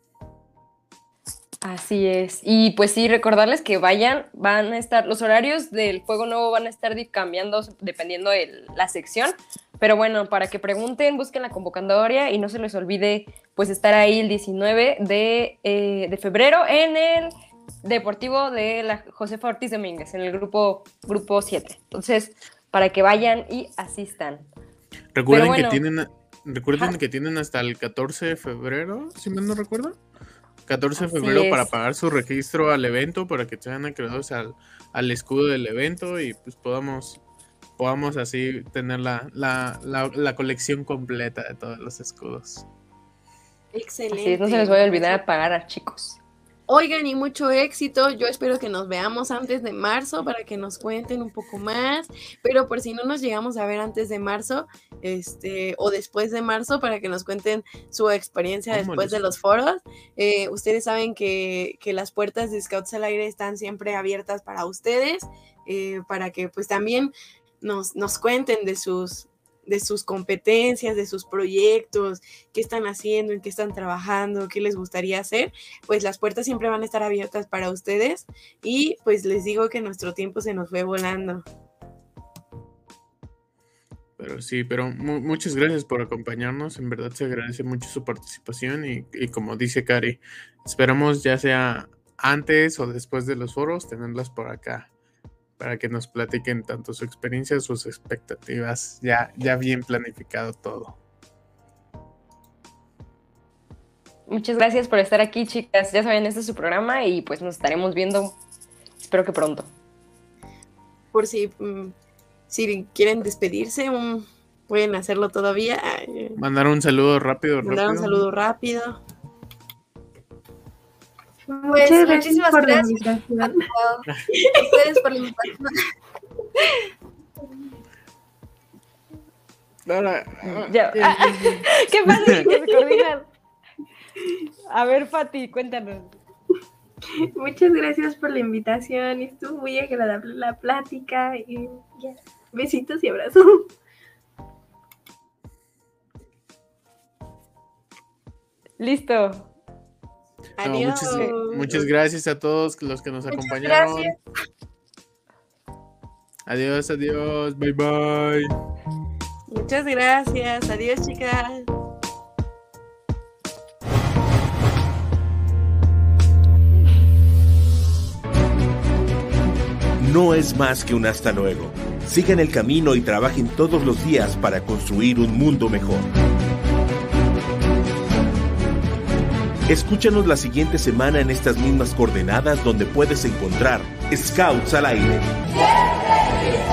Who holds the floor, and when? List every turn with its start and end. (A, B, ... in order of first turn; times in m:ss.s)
0:01.6-0:17.3 A
0:17.8-0:24.5 A
0:25.2-0:30.0 B
0:25.3-0:25.8 A
0:30.7-0:37.2 B
0:31.0-0:31.7 A
0:37.8-0:42.7 B
0:43.7-0:45.2 C
0:44.1-0:46.2 A
0:46.7-1:21.4 C
0:58.7-0:59.2 B
1:24.2-1:34.9 B
1:35.6-1:41.0 B
1:44.3-1:48.4 A
1:49.1-1:49.7 A
1:51.1-1:52.0 C
1:52.5-1:56.4 C
1:56.4-1:58.2 B
1:57.6-1:59.0 C
2:01.6-2:04.0 D
2:01.7-2:03.7 E
2:04.6-2:05.8 D
2:09.9-2:12.5 B
2:10.5-2:13.3 A
2:14.7-2:16.2 A
2:17.4-2:23.7 E
2:28.8-2:29.5 A
2:30.6-2:31.9 C
2:30.6-2:34.2 B
2:33.3-2:34.2 D
2:36.5-2:38.5 B
2:39.5-2:41.7 C
2:50.0-2:56.1 F
2:59.7-3:05.3 F